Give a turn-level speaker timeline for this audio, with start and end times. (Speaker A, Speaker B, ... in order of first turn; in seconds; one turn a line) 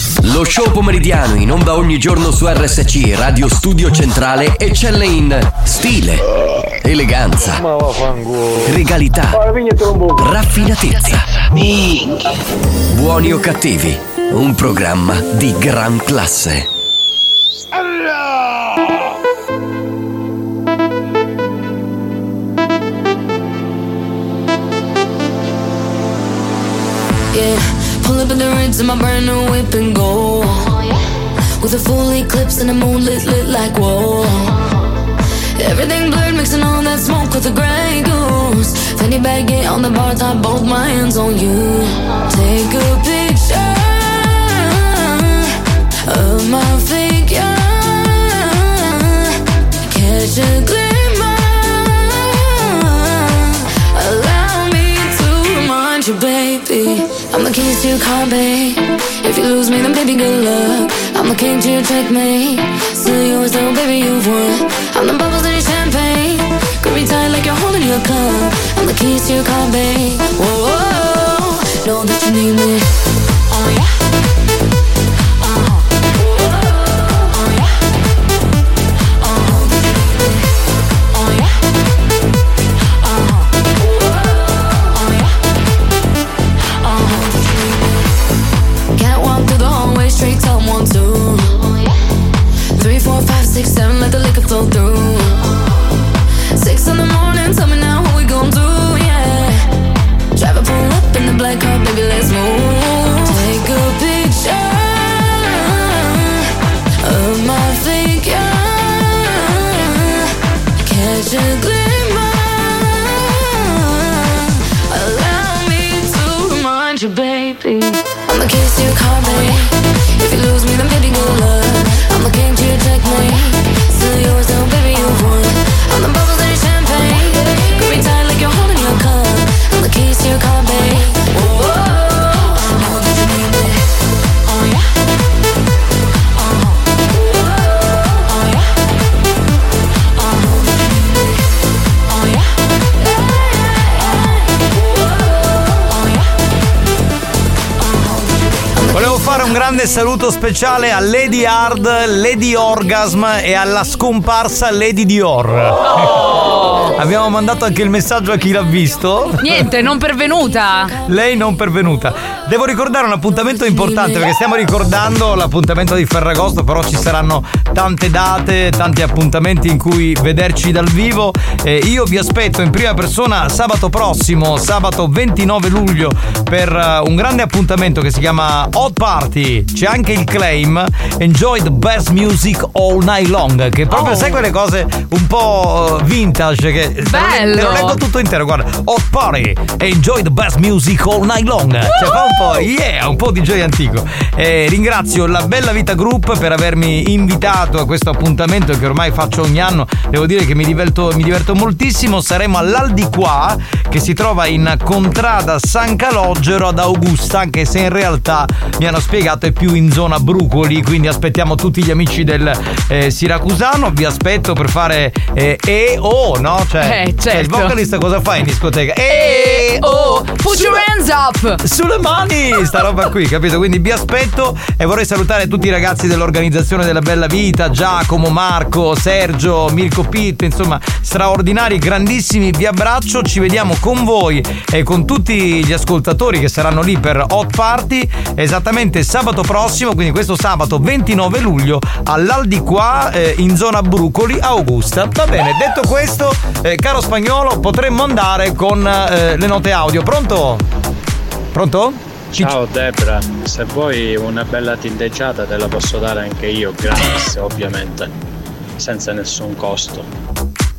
Speaker A: 0.2-6.2
Speaker A: 6.8-7.6
Speaker A: 8.7-9.4
Speaker A: 10.2-11.3
Speaker A: 12.9-16.7
Speaker B: 27.3-30.8
Speaker B: 31.6-34.6
Speaker B: 35.6-45.5
Speaker B: 46.1-49.3
Speaker B: 49.9-72.9
Speaker B: 73.5-73.9
Speaker B: 75.4-75.8
Speaker B: 77.3-77.7
Speaker B: 79.2-79.8
Speaker B: 81.1-81.5
Speaker B: 83.0-83.5
Speaker B: 84.9-85.3
Speaker B: 86.8-87.9
Speaker B: 89.0-91.7
Speaker B: 92.8-95.4
Speaker B: 96.6-99.7
Speaker B: 100.4-106.4
Speaker B: 107.0-110.2
Speaker B: 110.8-114.3
Speaker B: 114.9-133.8
Speaker B: 134.5-134.8
Speaker B: 136.4-136.7
Speaker B: 138.3-138.6
Speaker B: 140.2-140.7
Speaker C: 148.9-156.3
Speaker D: 156.0-156.9
Speaker C: 157.0-159.7
Speaker D: 159.4-160.9
Speaker C: 161.1-220.8
Speaker D: 183.9-184.4
Speaker D: 187.1-188.0
Speaker D: 191.9-192.3
Speaker D: 216.8-217.7
Speaker D: 219.1-221.6
Speaker C: 221.6-250.6
Speaker C: 251.5-252.6
Speaker E: 252.4-258.1
Speaker E: 258.8-260.1